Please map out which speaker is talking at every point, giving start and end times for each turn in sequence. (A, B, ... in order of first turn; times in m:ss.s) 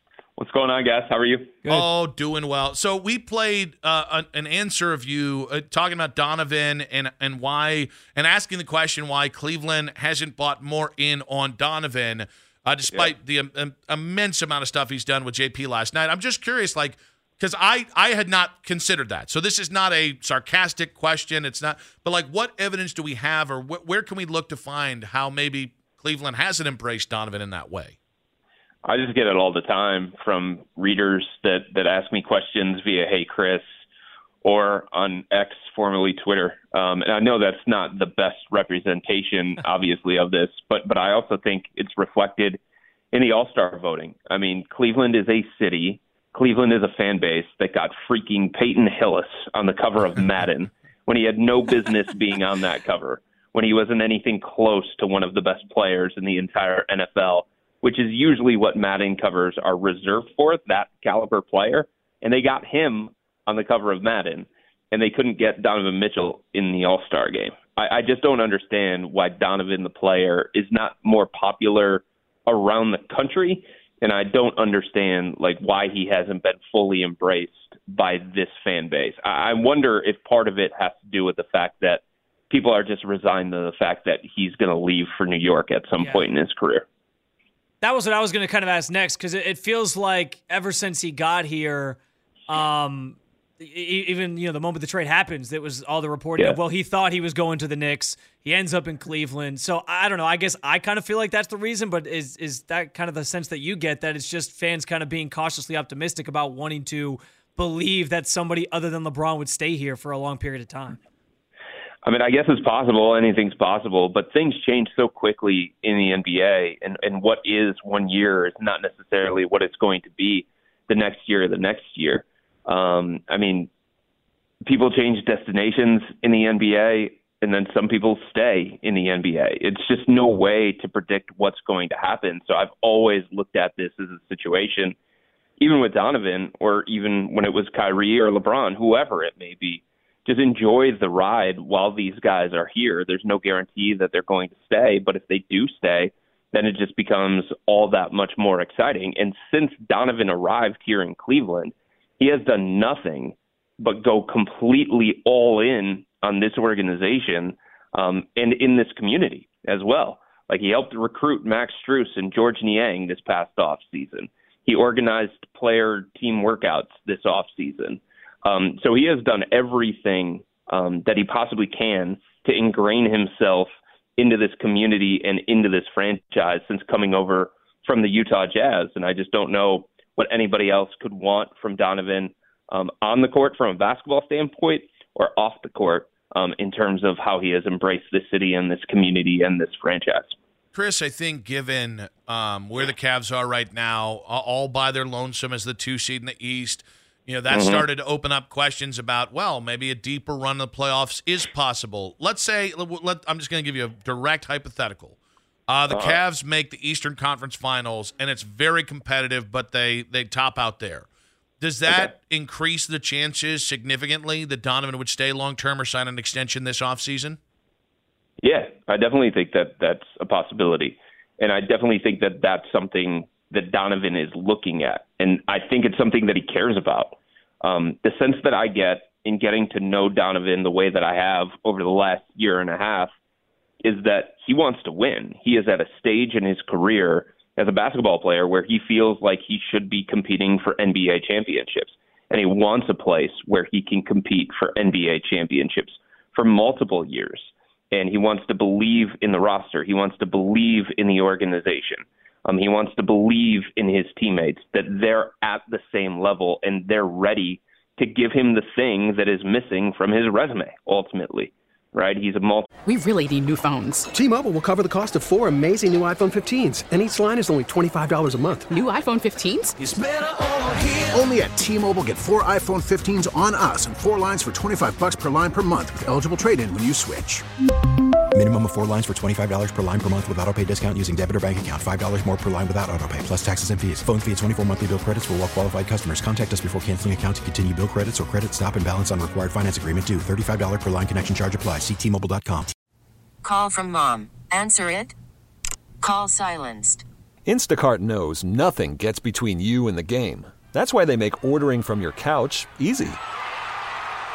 0:00.4-0:01.5 A
0:01.7-0:27.9 B
0:28.8-0:33.6 A
0:34.4-0:42.6 A
0:43.1-1:26.8 A
1:26.0-1:26.2 C
1:27.8-1:32.0 C
1:32.5-1:51.0 C
1:52.0-2:03.7 A
2:04.6-2:15.0 A
2:15.6-3:10.3 A
3:10.7-3:25.2 B
3:17.5-3:17.8 A
3:25.7-3:31.1 B
3:25.9-3:26.2 A
3:31.6-3:37.4 B
3:38.4-3:53.1 A
3:53.8-4:22.7 A
4:22.8-4:24.1 D
4:24.1-4:28.7 E
4:28.7-4:29.8 D
4:29.8-4:37.4 F
4:38.3-4:52.7 G
4:53.4-4:55.1 H
4:56.0-4:57.0 H
4:57.4-5:03.2 I